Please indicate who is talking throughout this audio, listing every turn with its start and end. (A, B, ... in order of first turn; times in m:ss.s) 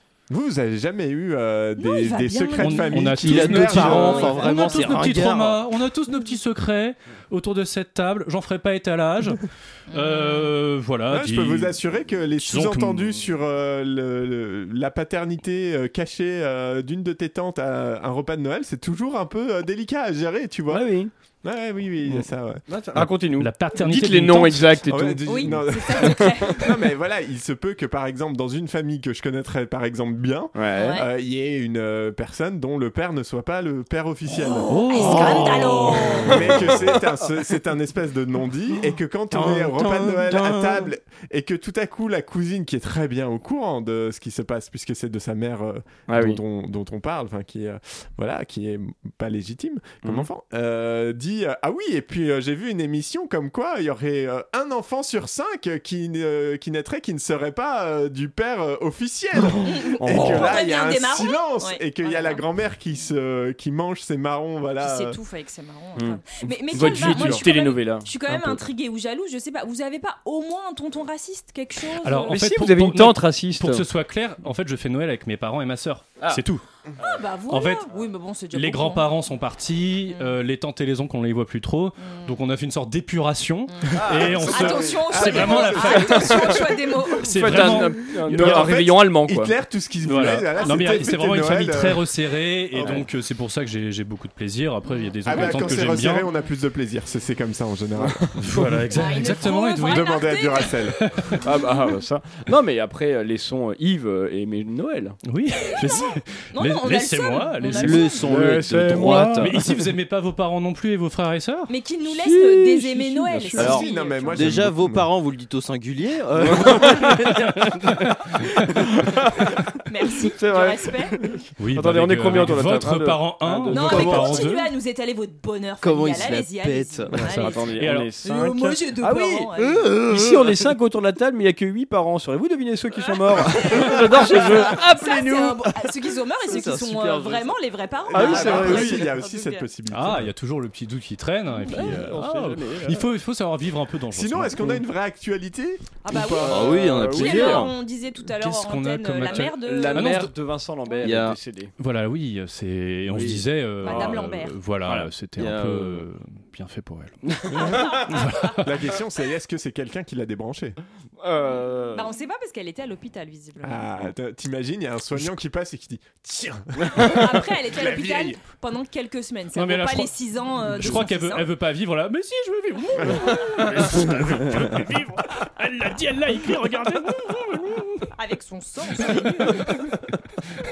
0:00.3-0:04.4 A
0:01.8-0:05.2 B
0:02.6-0:11.8 C
0:03.2-0:05.6 D
0:09.9-0:10.5 B
0:11.1-0:23.1 A
0:12.4-0:13.1 C
0:20.7-0:21.1 E
0:22.7-0:26.1 E
0:23.4-0:24.9 C
0:24.9-0:35.5 A
0:25.3-0:26.7 B
0:30.6-0:31.0 E
0:30.7-0:31.1 B
0:34.4-0:36.4 B
0:34.7-0:36.7 C
0:35.0-0:35.5 E
0:36.3-1:05.2 A
0:36.6-0:37.2 E
0:39.3-0:40.9 D
0:46.1-0:46.4 E
0:50.0-0:50.3 E
0:59.6-1:02.4 B
1:00.0-1:00.6 E
1:04.8-1:12.4 B
1:06.0-1:08.7 E
1:06.8-1:07.4 A
1:12.0-1:16.6 C
1:12.3-1:13.9 E
1:17.1-1:19.1 B
1:17.5-1:17.9 C
1:18.5-1:26.3 C
1:22.0-1:22.3 B
1:23.7-1:27.9 B
1:24.0-1:25.1 E
1:24.2-1:26.7 A
1:25.8-1:26.6 E
1:27.2-1:29.5 E
1:27.2-1:28.8 C
1:28.3-1:32.1 A
1:30.0-1:36.3 C
1:30.6-1:31.2 B
1:32.7-1:33.1 A
1:34.8-1:36.5 B
1:35.2-1:38.2 A
1:38.0-1:39.0 E
1:38.4-1:40.3 C
1:38.9-1:40.8 B
1:39.8-1:41.0 A
1:41.0-1:41.4 C
1:41.4-1:45.2 E
1:41.5-1:42.0 B
1:45.3-1:48.2 C
1:45.7-1:48.3 B
1:47.8-1:49.6 D
1:48.2-1:49.7 E
1:48.9-1:51.7 C
1:51.7-1:54.5 B
1:52.0-1:53.9 E
1:53.6-1:55.1 A
1:53.6-1:57.7 D
1:56.4-1:57.7 E
1:58.8-1:59.5 E
1:59.9-2:01.3 B
2:00.1-2:04.2 E
2:01.6-2:04.7 C
2:03.7-2:09.9 B
2:03.8-2:04.5 D
2:05.8-2:07.6 D
2:07.1-2:15.9 E
2:07.7-2:08.2 C
2:09.8-2:10.7 D
2:13.0-2:19.7 B
2:16.5-2:17.6 D
2:18.1-2:20.3 A
2:18.1-2:19.0 E
2:18.2-2:18.9 D
2:19.9-2:24.8 C
2:21.7-2:23.1 E
2:21.7-2:22.0 B
2:24.1-2:26.9 A
2:26.0-2:30.2 B
2:26.2-2:27.7 E
2:26.5-2:27.7 D
2:28.4-2:30.3 C
2:29.2-2:31.7 E
2:31.0-2:31.4 D
2:31.8-2:38.7 C
2:33.1-2:33.4 D
2:33.8-2:34.6 B
2:33.8-2:34.2 E
2:34.8-2:35.1 E
2:35.4-2:36.1 D
2:37.4-2:38.0 E
2:37.8-2:38.5 B
2:38.6-2:40.8 A
2:41.2-2:42.1 E
2:41.9-2:43.9 B
2:43.6-2:48.4 A
2:46.8-2:47.1 E
2:46.9-2:51.5 B
2:49.6-2:57.9 C
2:52.9-2:53.5 B
2:53.0-2:53.2 A
2:53.6-2:54.9 E
2:58.2-2:59.9 B